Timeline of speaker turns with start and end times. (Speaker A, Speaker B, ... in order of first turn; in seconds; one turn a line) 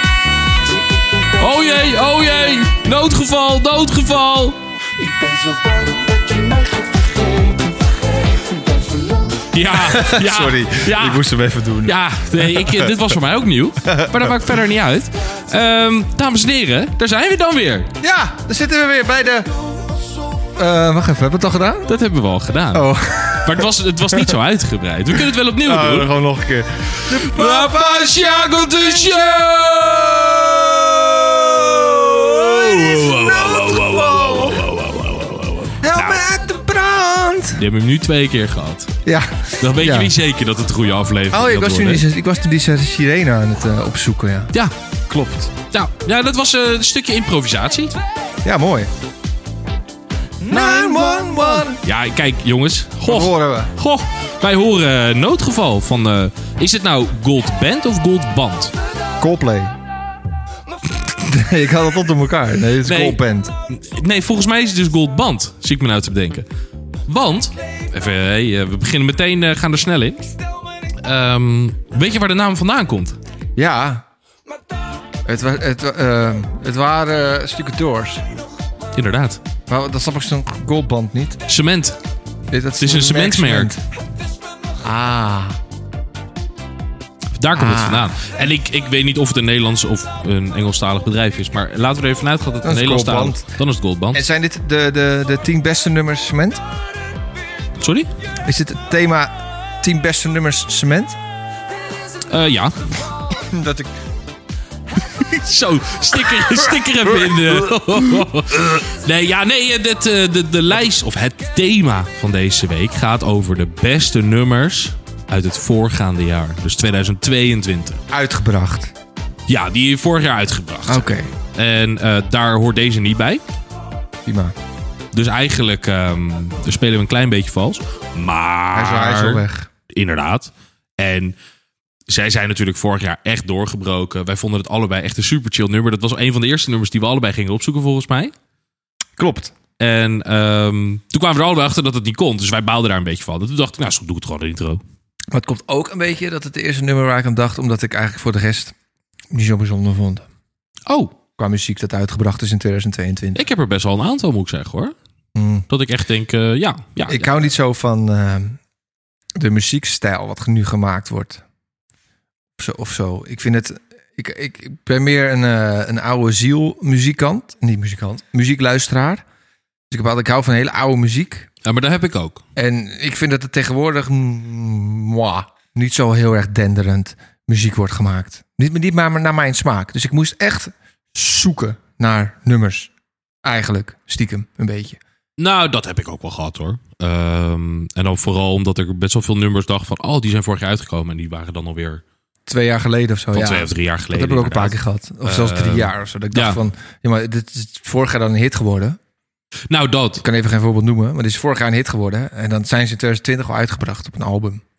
Speaker A: 1.4-4.6
Speaker B: 5.2-7.6
Speaker B: 8.8-9.1
Speaker A: 9.5-11.2
Speaker C: 9.7-13.1
Speaker A: 11.8-17.9
Speaker C: 13.8-14.6
Speaker C: 18.0-19.5
Speaker C: 20.6-21.9
Speaker A: 21.9-22.9
Speaker C: 22.7-24.4
Speaker A: 23.4-26.1
Speaker C: 25.1-34.7
Speaker A: 27.1-30.6
Speaker A: 32.0-36.2
Speaker C: 35.8-37.6
Speaker A: 37.6-38.9
Speaker C: 39.0-40.1
Speaker A: 39.6-42.0
Speaker C: 41.3-44.5
Speaker C: 45.1-45.5
Speaker A: 45.7-48.0
Speaker C: 48.4-48.9
Speaker C: 50.5-51.8
Speaker A: 50.5-58.7
Speaker C: 53.0-53.7
Speaker C: 59.2-59.7
Speaker C: 61.0-63.5
Speaker A: 62.8-66.5
Speaker A: 67.1-70.2
Speaker A: 71.0-73.2
Speaker C: 73.6-74.0
Speaker C: 75.3-78.3
Speaker A: 78.9-79.4
Speaker C: 79.7-81.4
Speaker A: 81.5-82.0
Speaker C: 82.5-83.8
Speaker A: 82.8-83.7
Speaker C: 84.8-85.6
Speaker A: 87.4-94.2
Speaker C: 87.5-88.3
Speaker C: 92.6-93.5
Speaker C: 94.1-96.6
Speaker A: 97.8-98.1
Speaker C: 98.5-101.2
Speaker A: 102.3-102.8
Speaker C: 103.3-103.9
Speaker A: 105.0-118.0
Speaker C: 106.5-108.3
Speaker C: 118.1-118.9
Speaker A: 119.5-123.4
Speaker C: 120.9-121.3
Speaker C: 124.2-124.5
Speaker A: 125.1-131.4
Speaker C: 128.7-129.7
Speaker A: 132.1-138.3
Speaker C: 139.2-139.5
Speaker A: 139.8-144.8
Speaker C: 145.3-148.8
Speaker C: 149.3-150.3
Speaker A: 150.9-151.2
Speaker C: 151.4-153.4
Speaker A: 153.3-154.9
Speaker C: 155.3-155.7
Speaker A: 155.7-157.3
Speaker C: 157.1-158.6
Speaker C: 159.4-161.4
Speaker C: 162.6-169.2
Speaker C: 169.9-171.5
Speaker A: 171.6-172.4
Speaker C: 172.6-182.9
Speaker C: 183.4-185.0
Speaker A: 185.4-192.0
Speaker C: 192.5-199.0
Speaker A: 193.3-196.6
Speaker A: 199.7-200.2
Speaker C: 200.2-204.6